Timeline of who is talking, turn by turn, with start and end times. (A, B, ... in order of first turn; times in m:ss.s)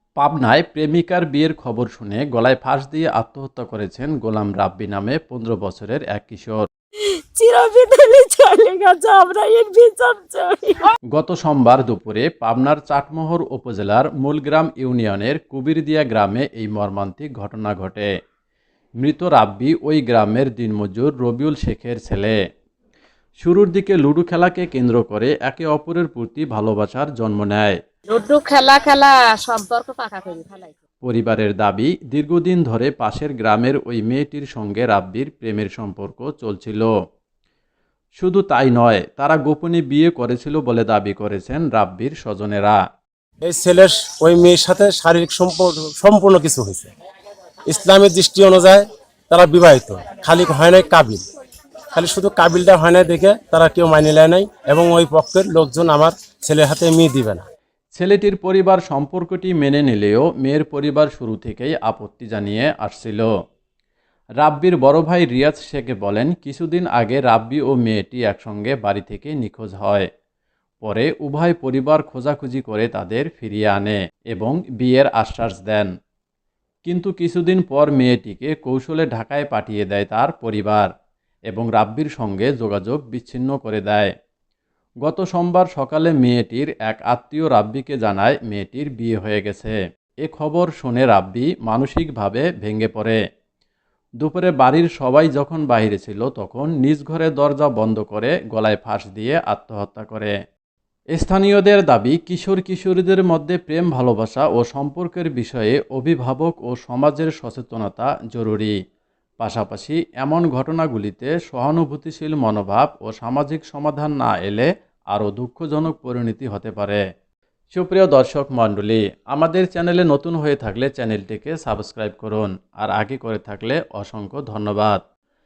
0:00.2-0:06.7 A
0:07.1-0:10.9 B
0:11.1-0:18.1 A
0:19.0-0:22.4 A
0:23.4-0:27.8 A
0:28.1-0:30.8 C
0:31.0-0:36.9 A
0:38.2-0:42.8 A
0:43.4-0:46.9 D
0:47.7-0:51.2 D
0:51.9-0:57.4 D
0:58.0-1:03.3 A
1:04.4-1:10.1 A
1:10.8-1:15.9 A
1:16.8-1:20.9 A
1:21.5-1:24.1 A
1:25.0-1:33.2 A
1:34.2-1:40.3 A
1:41.1-1:48.7 A
1:49.4-1:57.0 A
1:57.7-2:05.0 A